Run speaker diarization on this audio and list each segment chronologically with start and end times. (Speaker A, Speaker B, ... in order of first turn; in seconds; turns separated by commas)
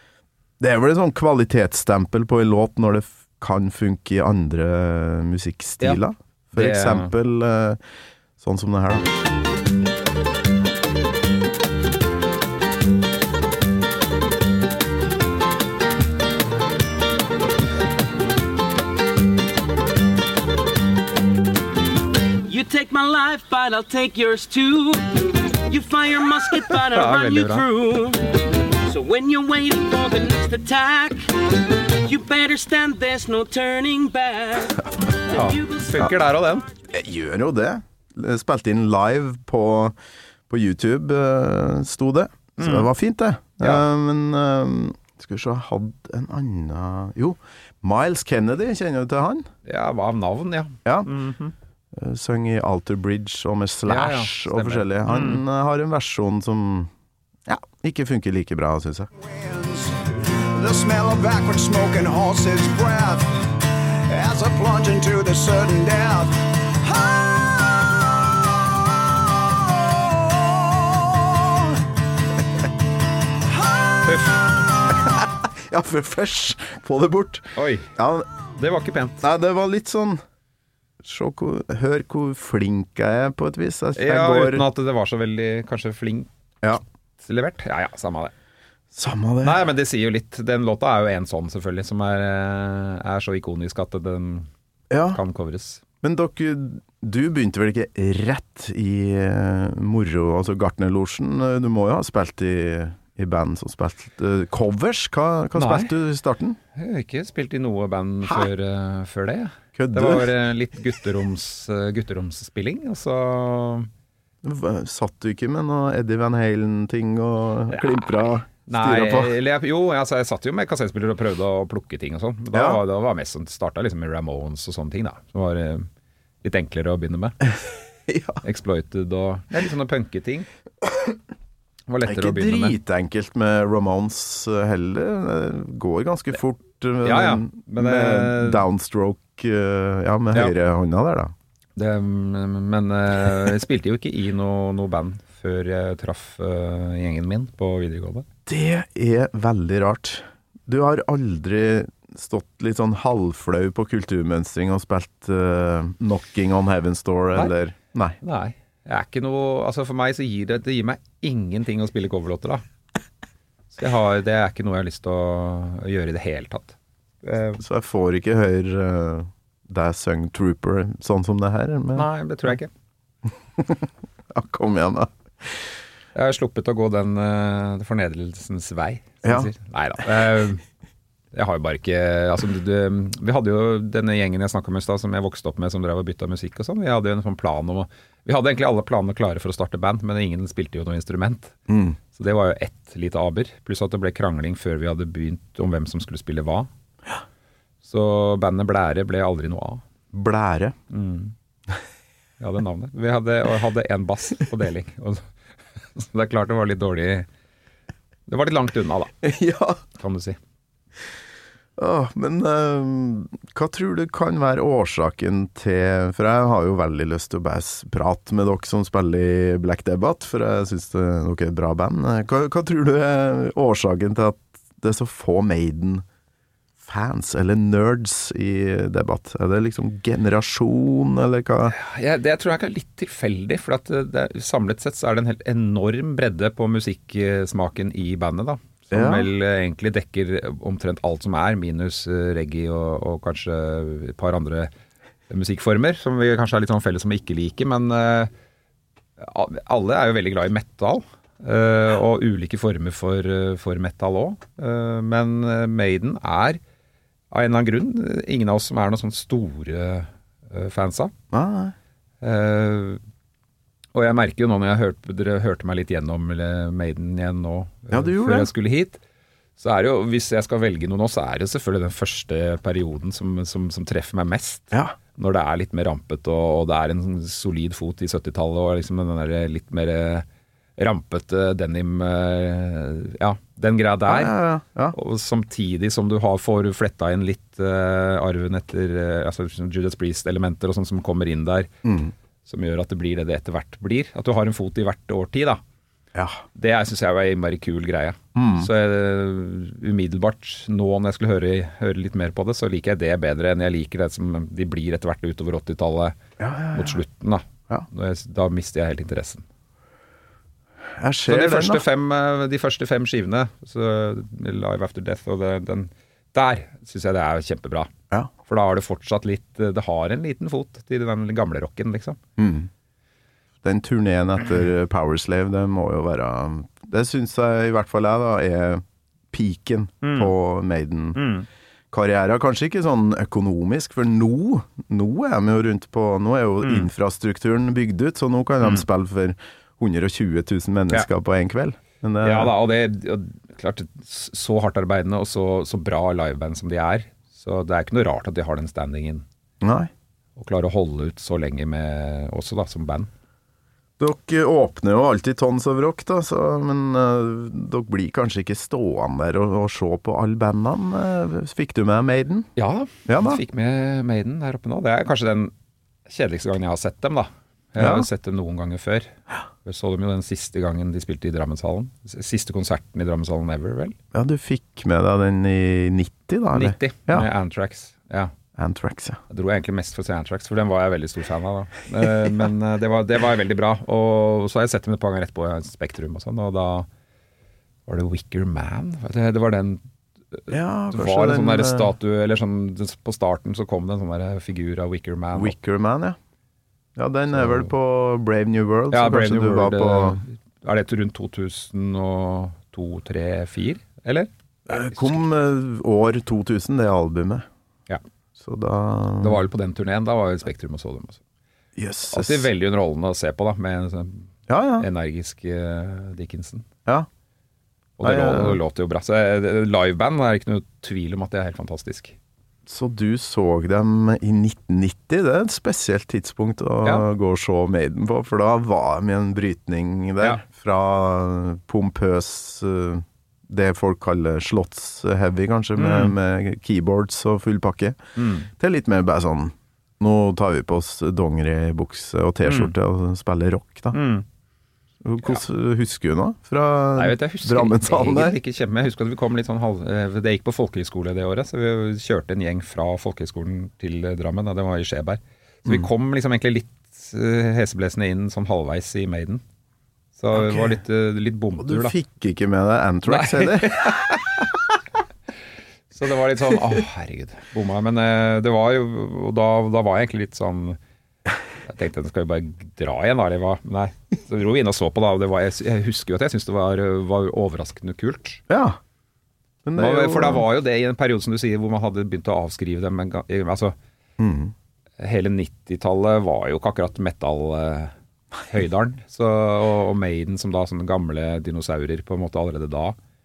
Speaker A: 0.6-7.8, Speaker B: 6.5-7.1, Speaker A: 8.4-9.1, Speaker C: 22.5-25.0, Speaker C: 25.7-28.2, Speaker B: 26.8-27.6, Speaker C: 28.9-31.2, Speaker C: 32.0-34.7, Speaker B: 35.3-36.7, Speaker C: 35.4-35.7, Speaker A: 36.9-40.0, Speaker A: 40.5-49.5, Speaker B: 42.6-42.9, Speaker B: 43.6-43.8, Speaker B: 49.6-51.5, Speaker A: 50.8-51.1, Speaker A: 51.9-56.9, Speaker B: 53.9-55.4, Speaker A: 57.5-59.1, Speaker D: 59.2-71.6, Speaker D: 73.5-74.3, Speaker B: 74.0-74.4, Speaker A: 75.0-78.3, Speaker B: 77.5-77.9, Speaker B: 78.6-79.2, Speaker A: 79.2-80.2, Speaker A: 81.0-84.6, Speaker B: 84.0-86.3, Speaker B: 87.2-88.3, Speaker A: 88.9-89.6, Speaker B: 89.4-94.5, Speaker A: 94.9-95.2, Speaker B: 95.1-95.8, Speaker A: 96.0-106.6, Speaker B: 105.5-105.9, Speaker B: 106.7-113.9, Speaker A: 109.8-110.3, Speaker A: 114.4-119.3, Speaker B: 117.7-125.9, Speaker A: 122.5-122.8, Speaker B: 126.4-127.5, Speaker A: 128.1-128.4, Speaker B: 128.4-130.5, Speaker B: 131.9-132.8, Speaker A: 132.0-141.3, Speaker B: 137.0-138.6, Speaker B: 141.8-148.2, Speaker A: 148.5-158.2, Speaker B: 158.2-162.6, Speaker B: 163.7-167.6, Speaker A: 167.6-172.1, Speaker B: 171.9-172.7, Speaker A: 173.6-175.7, Speaker B: 176.1-180.6, Speaker A: 179.2-179.5, Speaker B: 181.3-191.6, Speaker A: 191.7-192.0, Speaker B: 192.1-196.7, Speaker B: 197.8-199.8, Speaker A: 200.1-200.7, Speaker B: 200.9-201.3, Speaker B: 202.4-205.3, Speaker B: 205.9-207.3, Speaker B: 208.3-209.1, Speaker A: 209.2-209.8, Speaker B: 210.0-210.4, Speaker A: 211.8-226.0, Speaker A: 226.8-231.7, Speaker B: 231.7-244.7, Speaker A: 238.9-239.3, Speaker B: 245.3-248.3, Speaker B: 249.2-256.6, Speaker B: 257.3-261.1, Speaker A: 261.3-261.7, Speaker B: 262.2-263.0, Speaker B: 263.9-269.0, Speaker A: 267.9-268.5, Speaker B: 269.6-280.2, Speaker B: 280.8-284.4, Speaker A: 284.1-284.9, Speaker B: 284.9-291.7, Speaker A: 291.8-292.1, Speaker B: 292.4-295.6, Speaker A: 296.1-296.4, Speaker B: 296.5-306.1, Speaker A: 298.3-298.7, Speaker A: 306.4-307.0, Speaker B: 306.7-309.4, Speaker A: 311.0-311.8, Speaker B: 311.3-317.9, Speaker B: 318.4-322.2, Speaker A: 322.4-322.7, Speaker A: 323.6-331.2, Speaker B: 330.0-330.3, Speaker B: 331.1-331.5, Speaker A: 331.9-342.5, Speaker B: 336.6-336.9, Speaker B: 342.2-349.2, Speaker A: 349.6-349.9, Speaker B: 350.4-353.1, Speaker A: 354.0-362.5, Speaker B: 362.6-365.5, Speaker A: 363.1-363.4, Speaker B: 366.1-373.9, Speaker A: 367.8-368.1, Speaker A: 374.1-377.3, Speaker B: 376.5-378.3, Speaker A: 378.6-379.2, Speaker B: 379.3-386.9, Speaker B: 387.9-395.5, Speaker A: 390.5-391.9, Speaker A: 395.3-396.2, Speaker A: 396.9-400.2, Speaker B: 397.3-397.7, Speaker B: 398.9-405.2, Speaker A: 404.7-407.4, Speaker A: 408.4-409.4, Speaker B: 409.2-411.2, Speaker A: 411.8-412.5, Speaker B: 412.1-416.6, Speaker A: 414.5-414.9, Speaker B: 418.0-422.1, Speaker A: 418.0-418.6, Speaker A: 422.6-438.0, Speaker B: 435.8-436.1, Speaker B: 438.2-438.5, Speaker A: 438.5-444.0, Speaker B: 442.4-442.7, Speaker B: 443.9-444.2, Speaker A: 445.0-448.4, Speaker B: 446.9-459.4, Speaker B: 460.2-461.9, Speaker A: 460.3-460.8, Speaker A: 461.6-464.2, Speaker B: 463.1-464.5, Speaker B: 465.9-470.8, Speaker B: 471.6-478.4, Speaker A: 478.5-478.8, Speaker A: 479.6-480.4, Speaker B: 479.8-483.7, Speaker A: 484.2-484.5, Speaker B: 485.0-487.9, Speaker B: 488.4-492.9